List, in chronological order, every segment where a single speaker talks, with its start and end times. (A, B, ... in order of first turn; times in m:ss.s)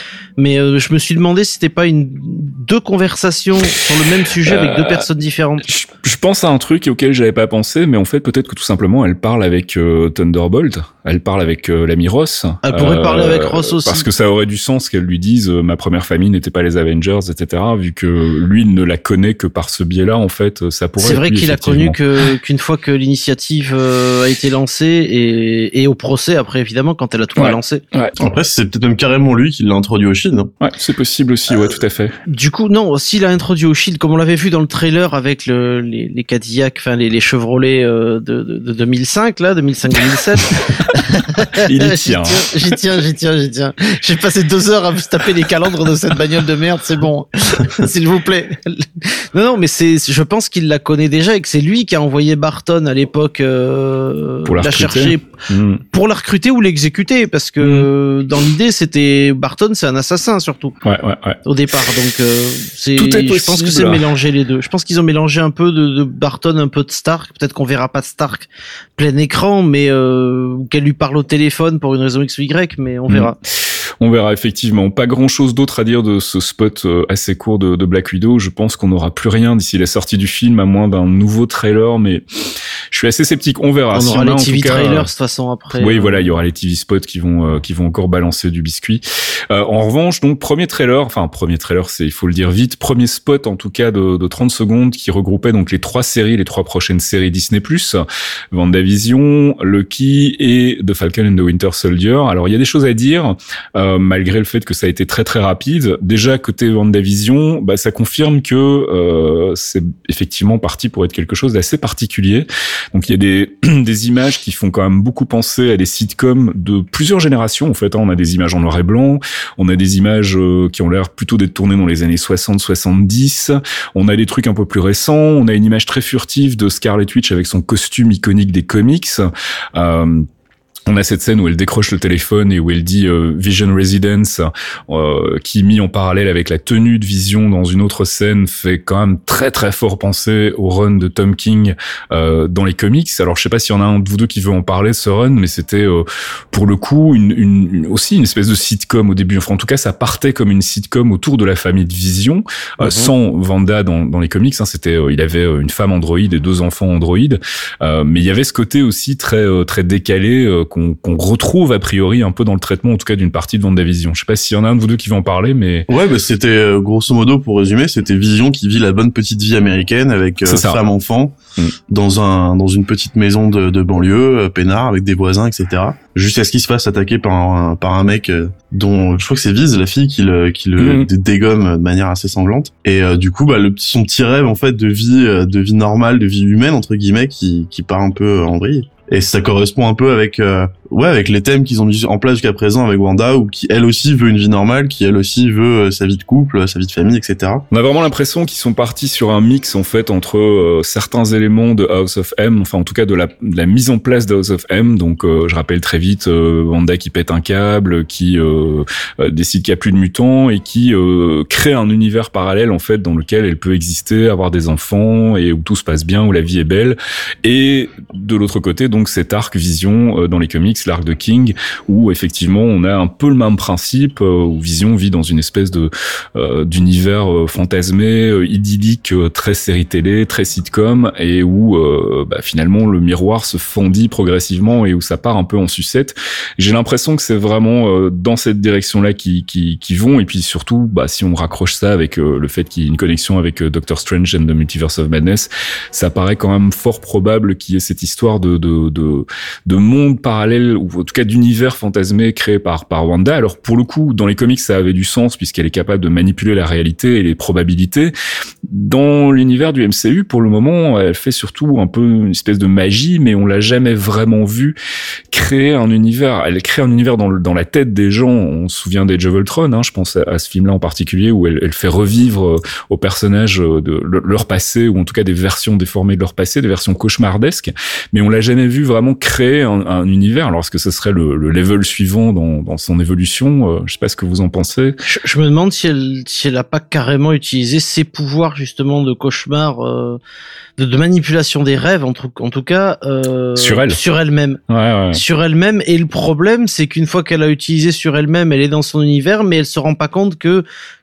0:00.4-0:05.6 A
0:04.4-0:05.0 B
0:05.6-0:22.0 B
0:12.6-0:14.0 A
0:21.0-0:27.8 A
0:27.4-0:28.2 B
0:28.2-0:30.5 C
0:30.6-0:32.2 B
0:32.3-0:55.3 A
0:40.8-0:42.8 B
0:54.4-0:55.8 B
0:55.9-1:00.8 A
0:57.6-0:57.9 B
1:00.8-1:01.4 B
1:01.4-1:13.4 A
1:03.0-1:04.0 B
1:14.0-1:22.2 B
1:22.9-1:25.1 B
1:23.9-1:26.3 A
1:25.8-1:38.0 B
1:38.5-2:10.3 B
2:10.9-2:45.9 B
2:45.9-2:51.4 C
2:50.4-2:50.8 B
2:51.9-3:17.6 C
3:00.8-3:01.1 B
3:17.7-4:18.1 B
4:18.7-4:24.8 B
4:25.3-4:45.0 B
4:45.0-4:50.2 A
4:50.8-4:54.6 A
4:53.6-4:54.0 B
4:54.7-4:55.2 B
4:55.1-5:00.6 A